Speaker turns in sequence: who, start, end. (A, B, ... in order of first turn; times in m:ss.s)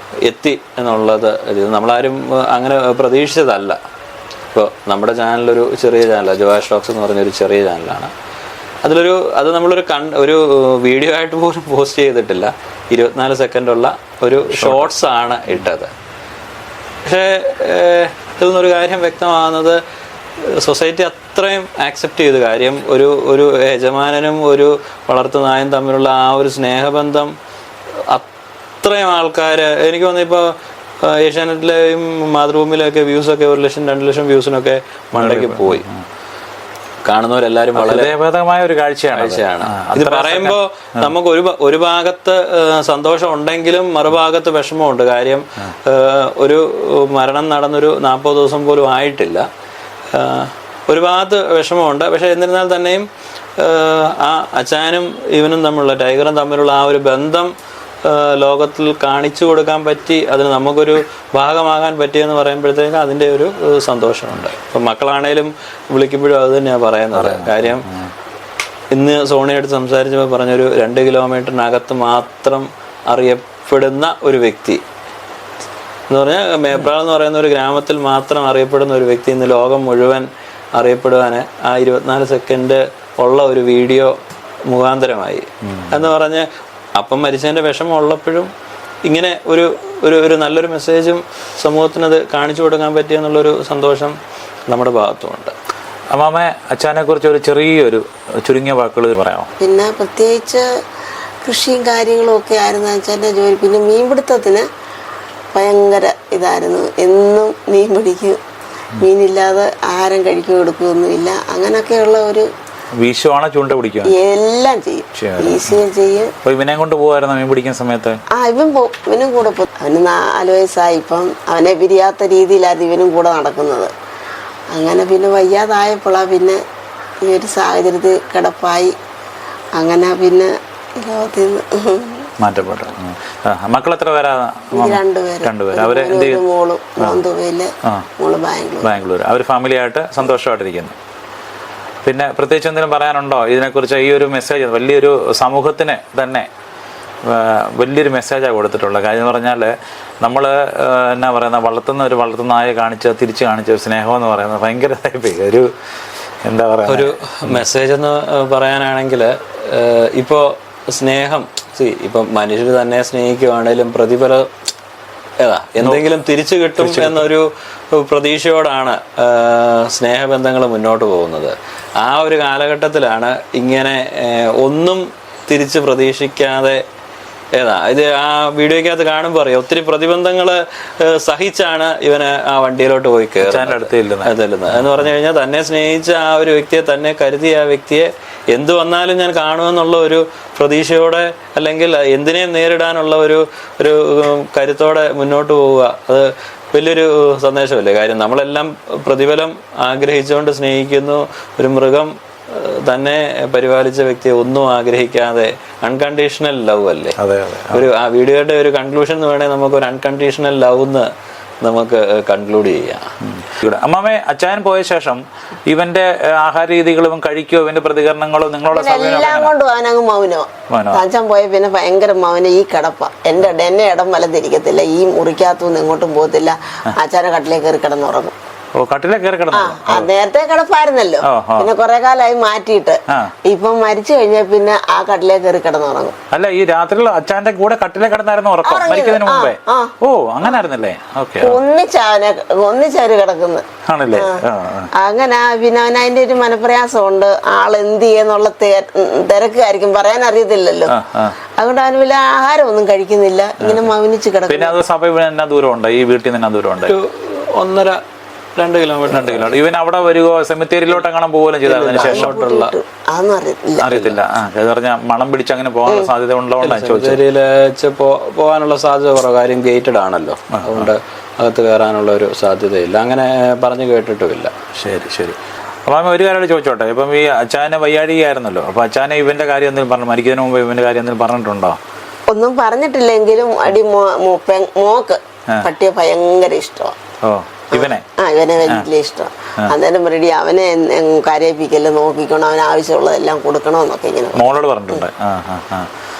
0:00.2-0:03.8 A
0:04.5-0:08.1 A
0:08.8-0:15.9 A
0:14.6-0:14.9 B
0:17.0-0:19.8 A
0:20.4-0:27.3 A
0:28.8-0:35.8 A
0:35.2-0:36.0 B
0:37.1-0:38.1 A
0:37.8-0:41.1 B
0:39.1-0:49.4 A
0:50.1-0:57.5 A
0:58.0-1:07.9 A
1:07.2-1:08.1 B
1:08.9-1:14.8 A
1:16.1-1:24.2 A
1:24.7-1:28.5 A
1:25.6-1:26.0 B
1:29.0-1:34.2 A
1:34.7-1:35.5 A
1:36.1-1:39.5 B
1:39.6-1:40.6 C
1:41.4-1:44.6 C
1:45.5-1:48.4 C
1:49.0-1:52.5 C
1:53.0-1:54.1 B
1:54.0-1:56.3 C
1:55.2-1:55.8 B
1:56.4-1:58.2 B
1:58.3-2:03.9 C
2:04.7-2:06.6 C
2:07.2-2:08.9 C
2:09.8-2:12.2 C
2:12.4-2:16.4 B
2:14.7-2:19.0 C
2:18.8-2:21.0 B
2:22.0-2:26.5 B
2:27.2-2:35.7 B
2:36.4-2:37.6 B
2:36.9-2:44.5 A
2:45.4-2:56.8 A
2:46.8-2:47.2 B
2:57.6-3:27.2 A
3:03.4-3:04.3 B
3:27.2-3:27.8 B
3:27.7-3:31.1 A
3:31.6-3:33.0 A
3:33.2-3:39.5 B
3:38.7-3:48.3 C
3:40.7-3:41.0 B
3:48.8-3:50.1 B
3:49.5-3:56.1 C
3:51.3-3:51.7 B
3:56.3-4:01.6 B
3:58.6-3:59.9 C
4:01.4-4:04.4 C
4:03.9-4:04.9 B
4:05.0-4:10.9 C
4:10.9-4:11.4 B
4:11.6-4:14.8 C
4:13.6-4:13.9 B
4:14.5-4:16.9 B
4:16.8-4:18.0 A
4:18.6-4:19.6 A
4:19.1-4:22.4 B
4:21.6-4:22.7 A
4:22.0-4:23.9 C
4:23.8-4:27.2 B
4:26.6-4:34.5 A
4:30.6-4:30.9 B
4:34.7-4:41.8 B
4:42.3-4:46.9 C
4:47.2-4:48.0 B
4:47.7-4:55.0 C
4:54.4-4:55.9 B